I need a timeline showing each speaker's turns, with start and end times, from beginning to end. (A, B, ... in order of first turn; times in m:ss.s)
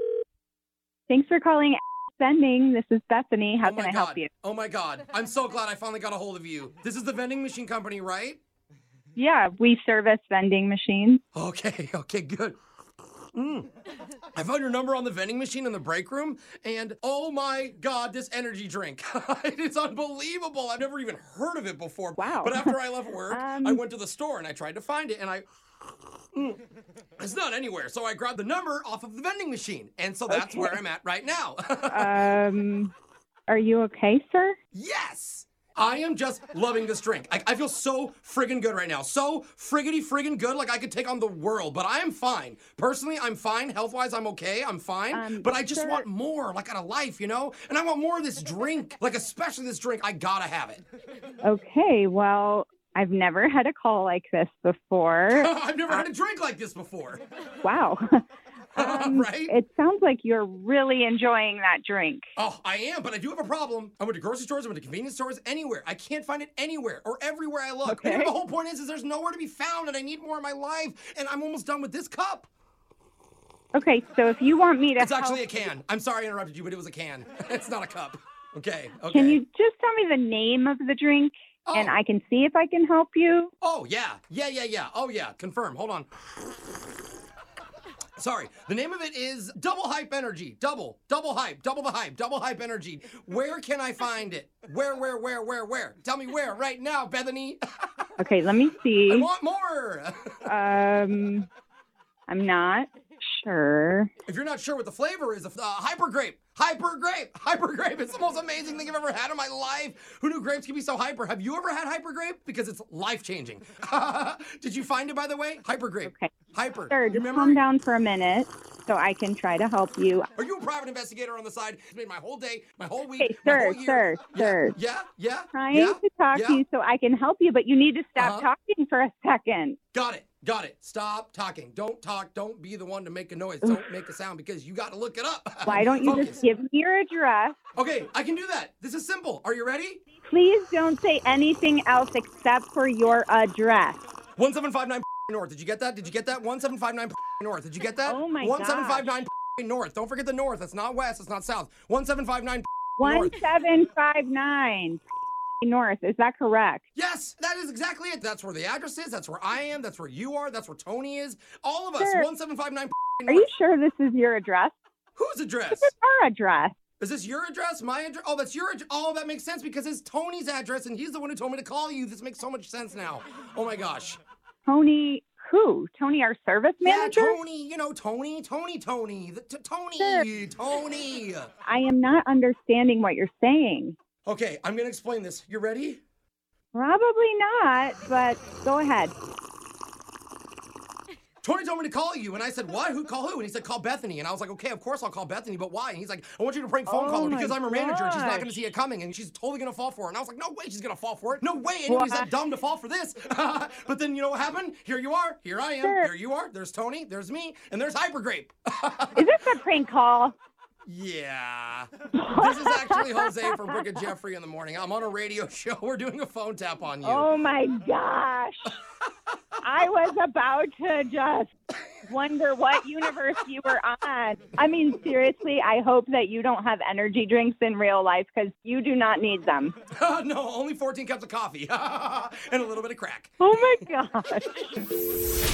0:01.1-0:04.3 A
0:03.6-0:08.4 B
0:09.2-0:11.2 A
0:11.3-0:12.6 B
0:13.3-0:13.7 B
0:14.3-0:25.5 B
0:22.2-0:23.8 A
0:27.2-0:32.2 B
0:30.3-0:30.8 A
0:31.9-0:32.9 A
0:33.5-0:34.6 A
0:34.7-0:50.8 B
0:45.1-0:46.0 A
0:51.4-0:56.0 A
0:55.3-0:57.2 B
0:57.6-0:58.0 A
0:58.7-0:59.5 B
0:58.8-1:02.3 A
1:02.4-1:12.5 B
1:07.8-1:08.3 A
1:13.7-1:15.7 A
1:15.0-1:19.4 B
1:19.1-1:23.5 A
1:21.7-1:22.0 B
1:23.6-1:26.1 B
1:28.2-1:38.1 B
1:38.2-1:39.3 A
1:39.1-1:40.5 B
1:40.4-1:41.5 A
1:42.3-1:44.1 A
1:44.2-1:57.6 B
1:56.0-1:56.3 A
1:56.9-2:00.3 A
2:00.3-2:06.6 B
2:03.2-2:04.8 A
2:05.5-2:09.8 A
2:08.2-2:08.5 B
2:09.9-2:16.4 B
2:15.6-2:17.6 A
2:17.8-2:20.0 B
2:20.2-2:24.0 A
2:24.4-2:33.4 B
2:28.0-2:29.1 A
2:33.0-2:35.0 A
2:35.6-2:36.8 A
2:36.9-2:43.5 B
2:42.0-2:42.3 A
2:43.3-2:44.7 A
2:45.2-2:45.9 B
2:45.7-2:46.7 A
2:47.0-2:54.2 B
2:54.6-2:57.4 A
2:56.8-3:01.5 B
3:00.0-3:00.2 A
3:01.6-3:04.0 A
3:04.2-3:06.0 B
3:06.7-3:09.1 A
3:11.4-3:29.3 B
3:16.9-3:18.6 A
3:21.9-3:22.3 A
3:25.8-3:26.1 A
3:29.2-3:30.3 A
3:30.9-3:37.3 B
3:32.2-3:33.8 A
3:37.0-3:38.8 A
3:39.6-3:41.5 A
3:42.1-3:49.8 A
3:49.9-3:53.4 B
3:53.4-3:54.8 A